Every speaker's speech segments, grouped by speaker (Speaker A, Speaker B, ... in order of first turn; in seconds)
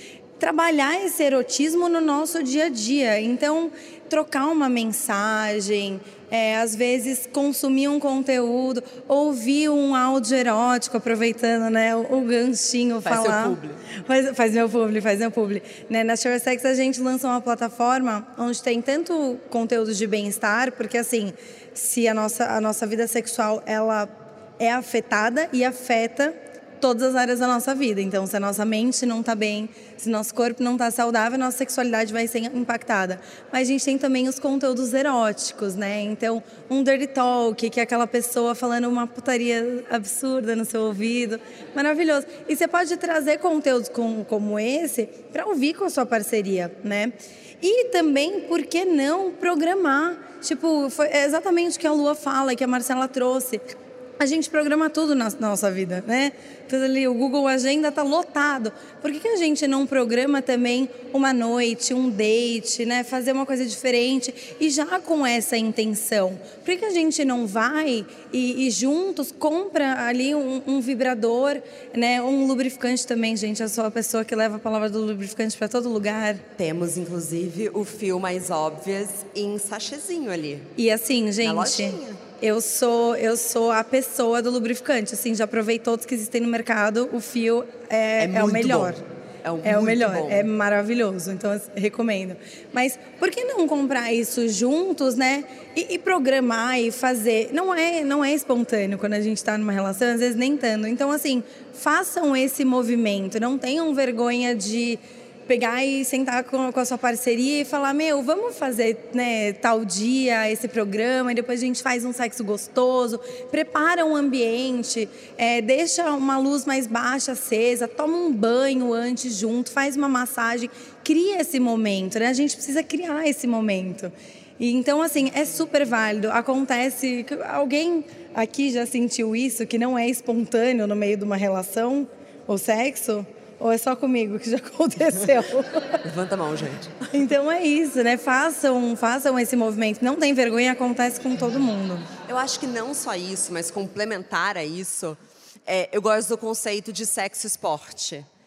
Speaker A: 0.4-53.6, 54.2-76.4, 80.8-89.0, 89.6-136.0, 137.1-142.1
Speaker B: 13.0-13.8, 76.6-80.7, 81.4-82.2, 88.2-90.5, 136.0-137.1, 142.3-148.3